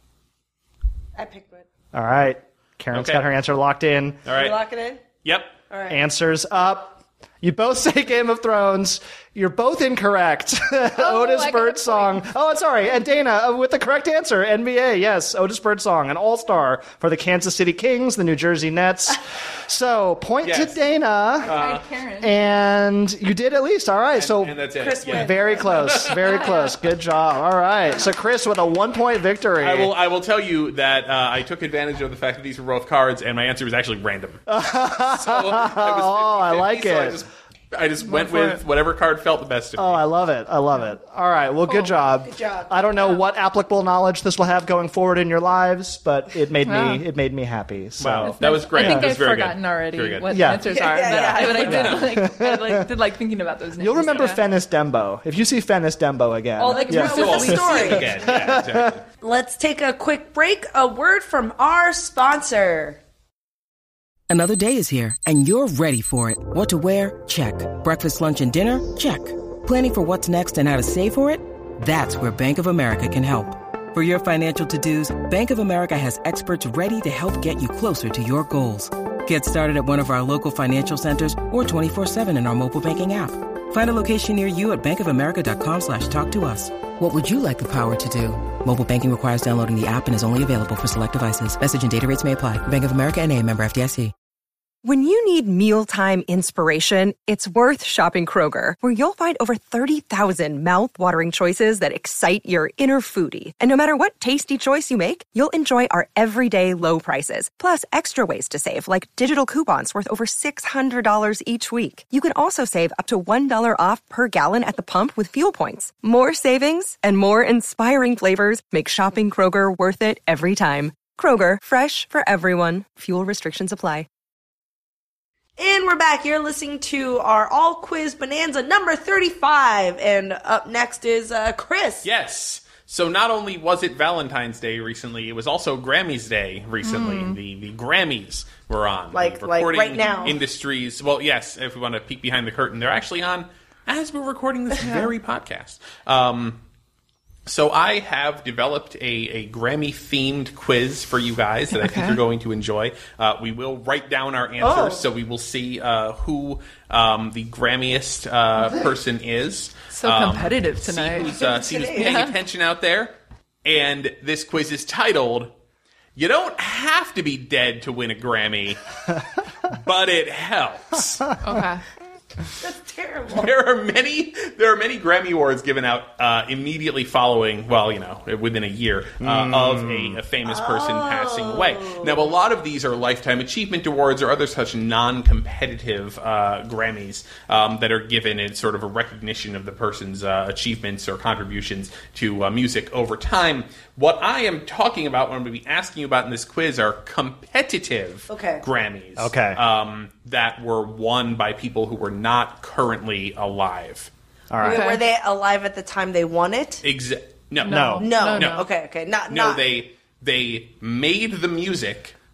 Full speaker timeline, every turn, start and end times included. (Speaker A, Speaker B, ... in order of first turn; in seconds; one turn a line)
Speaker A: 1.2-1.7
Speaker B: 1.9-4.2
Speaker C: 2.9-3.3
Speaker C: 4.3-4.6
Speaker A: 4.3-5.0
Speaker C: 5.2-5.6
Speaker A: 5.7-6.0
Speaker B: 5.9-21.6
Speaker D: 11.0-12.2
Speaker C: 20.4-20.8
Speaker D: 21.4-22.3
Speaker C: 21.4-21.9
Speaker B: 22.2-30.0
Speaker C: 24.1-26.4
Speaker A: 24.8-25.7
Speaker D: 26.2-26.8
Speaker C: 29.6-34.5
Speaker B: 34.5-37.2
Speaker C: 35.0-40.0
Speaker D: 38.1-38.6
Speaker B: 39.8-49.1
Speaker D: 41.7-41.9
Speaker A: 42.2-43.2
Speaker D: 46.6-47.1
Speaker C: 48.0-50.5
Speaker D: 48.2-54.4
Speaker B: 50.3-52.9
Speaker A: 50.7-52.0
Speaker C: 51.1-52.1
Speaker B: 53.8-59.0
Speaker A: 56.6-58.2
Speaker D: 56.6-58.3
Speaker C: 56.9-59.0
Speaker A: 59.2-63.0
Speaker E: 64.3-94.1
Speaker F: 94.8-124.1
Speaker A: 125.6-132.1
Speaker C: 132.0-146.6
Speaker D: 136.8-137.4
Speaker A: 139.1-140.4
Speaker D: 140.0-140.3
Speaker D: 144.8-145.1
Speaker C: 147.5-165.5
Speaker D: 151.8-152.2
Speaker A: 154.6-155.0
Speaker D: 159.9-161.4
Speaker A: 161.2-162.3
Speaker D: 161.9-162.4
Speaker C: 166.2-168.8
Speaker C: 169.7-171.3
Speaker D: 171.4-171.8
Speaker A: 172.6-173.5
Speaker C: 173.3-204.1
Speaker B: 179.2-180.2
Speaker A: 180.4-182.3
Speaker A: 198.3-198.7
Speaker B: 199.2-199.6
Speaker B: 204.5-204.9
Speaker A: 204.6-206.8
Speaker D: 204.6-205.0
Speaker C: 206.8-208.7
Speaker D: 207.6-208.7
Speaker B: 207.7-208.0
Speaker A: 208.0-209.6
Speaker C: 209.3-212.2